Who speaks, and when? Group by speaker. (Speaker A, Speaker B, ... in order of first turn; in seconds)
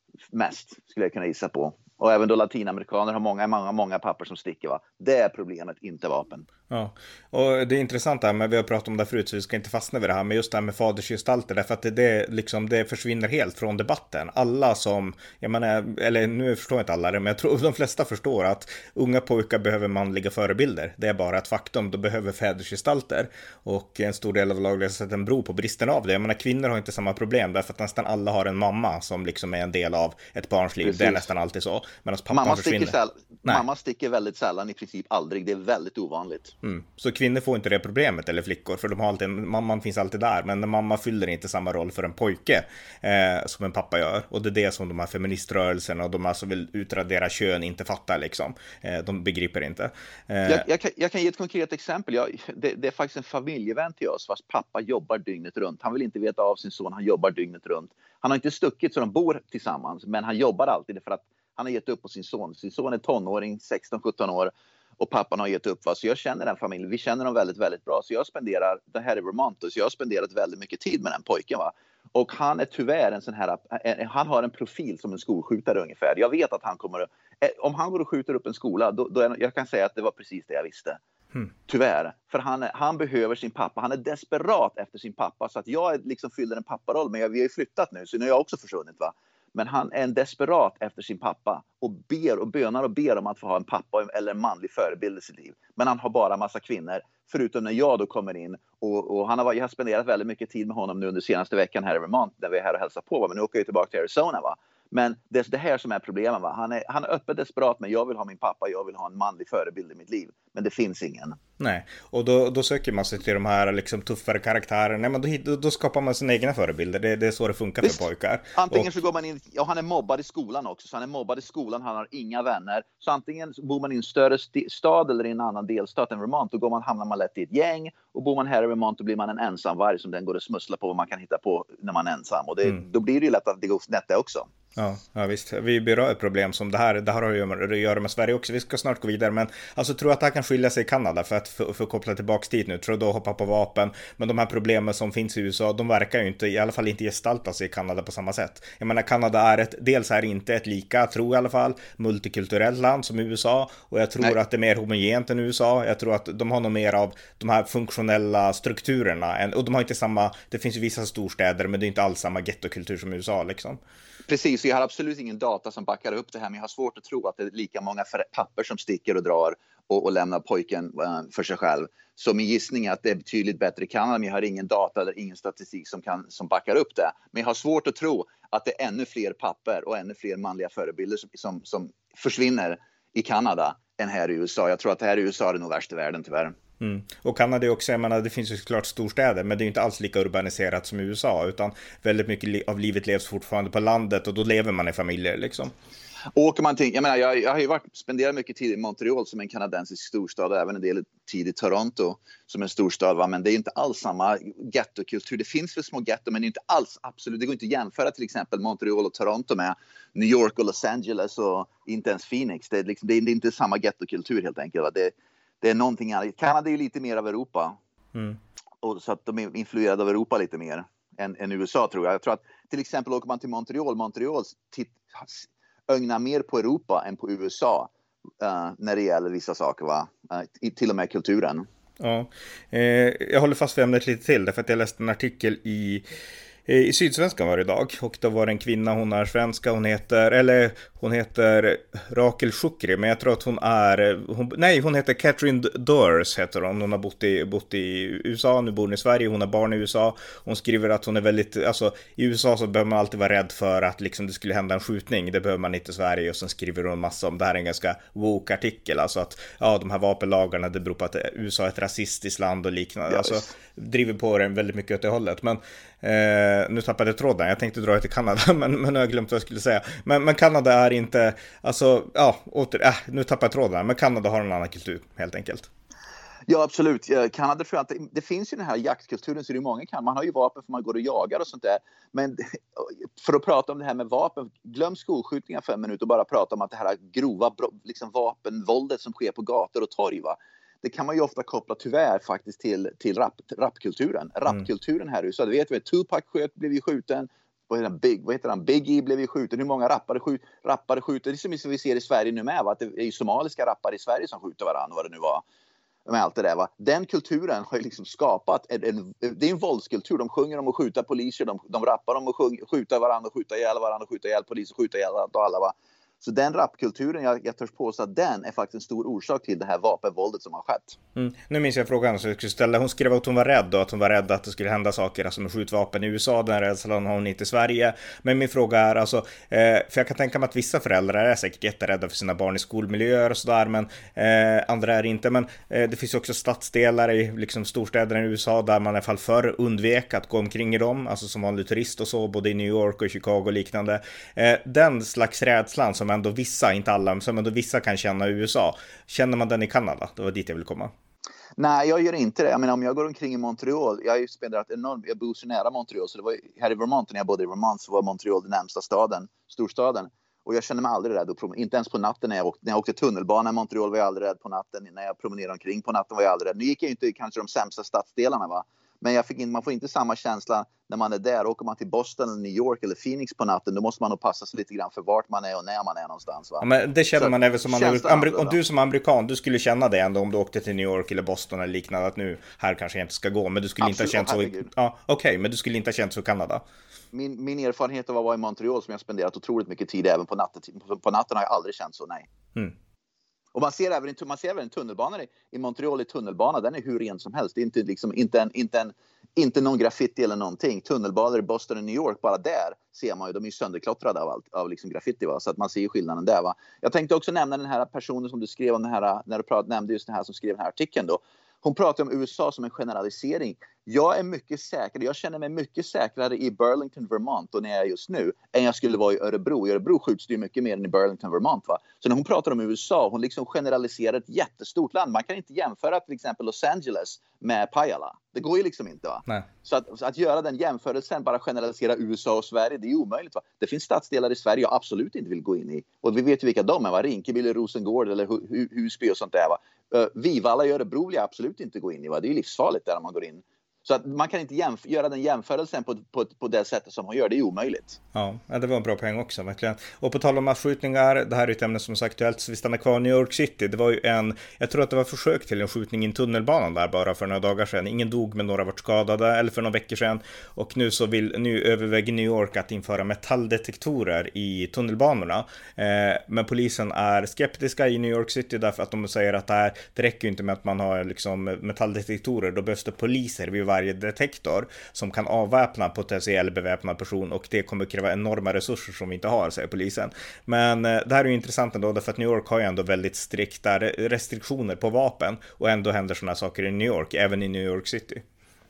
Speaker A: 0.3-6.5, 30.8-31.3, 32.3-36.5, 50.4-81.0, 81.7-111.4, 117.8-134.5, 164.3-186.5, 196.3-217.8, 218.8-227.9, 228.4-231.7, 263.1-263.5, 276.5-305.4, 306.1-321.0, 351.6-378.6, 383.8-384.7, 387.1-392.3, 393.5-448.0
Speaker B: 6.7-33.6, 36.6-50.6, 111.6-118.9, 134.8-163.8, 186.8-195.7, 232.0-236.1, 236.7-275.7, 321.1-350.9, 376.6-386.6, 448.1-488.2